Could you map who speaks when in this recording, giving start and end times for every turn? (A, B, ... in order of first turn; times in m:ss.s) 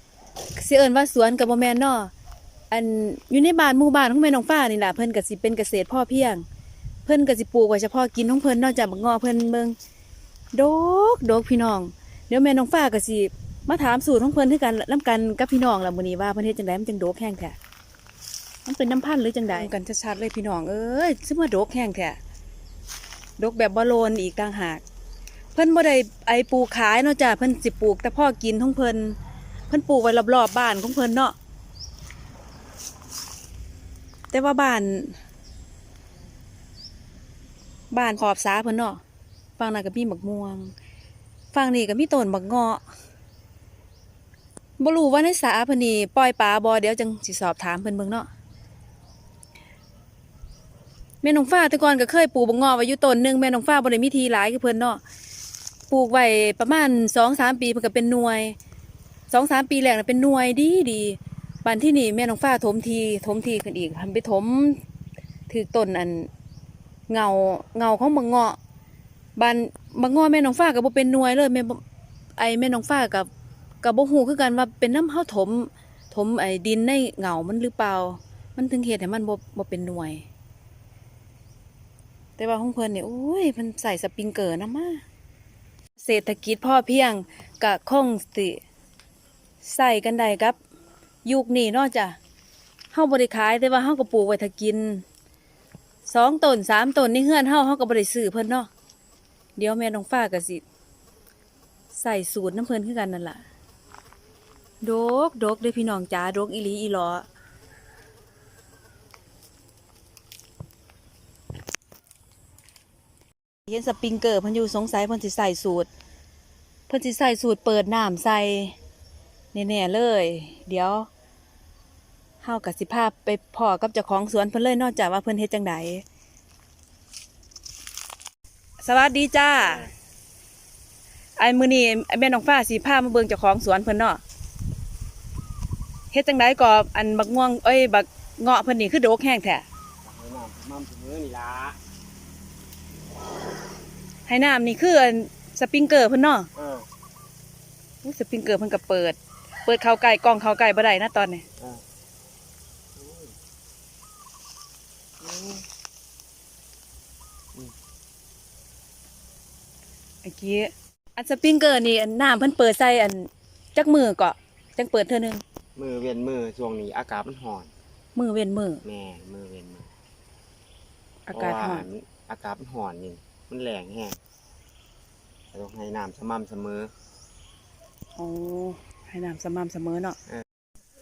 0:00.6-0:02.1 A
0:02.7-0:06.4 A
0:07.0-0:09.7 A
0:10.5-0:17.6 A
0:18.6-0:22.2 A
0:23.4-0:24.8 A
0:25.5-0:29.2 A
0:29.7-0:31.3 A
0:34.3-0:35.2 A
0:37.9-0:39.0 A
0:39.6-0:40.7 A
0:41.5-0:42.8 A
0:44.8-0:48.3 A
0:51.2-0:55.0 A
0:55.9-0:58.6 A
0:59.3-1:04.8 A
1:05.5-1:06.3 A
1:07.1-1:08.6 A
1:09.4-1:11.8 A
1:12.4-1:13.3 A
1:13.8-1:20.2 A
1:22.4-1:25.0 A
1:26.0-1:28.6 A
1:29.6-1:30.6 A
1:31.2-1:32.2 A
1:32.9-1:35.0 A
1:36.0-1:38.7 A
1:39.6-1:40.6 A
1:41.9-1:43.4 A
1:44.8-1:47.2 A
1:53.7-1:55.9 A
1:56.9-1:58.7 A
1:59.5-2:01.1 A
2:02.4-2:06.0 A
2:08.8-2:09.9 A
2:11.4-2:14.2 A
2:16.1-2:19.6 A
2:20.0-2:21.8 B
2:24.3-2:26.5 A
2:26.6-2:26.8 B
2:28.0-2:31.4 A
2:33.0-2:33.3 B
2:35.2-2:35.6 B
2:40.2-2:45.4 A
2:45.8-2:47.7 B
2:48.1-2:48.8 A
2:48.8-2:49.9 B
2:51.3-2:51.8 A
2:51.3-2:54.2 B
2:55.5-2:56.9 B
2:58.2-3:00.2 A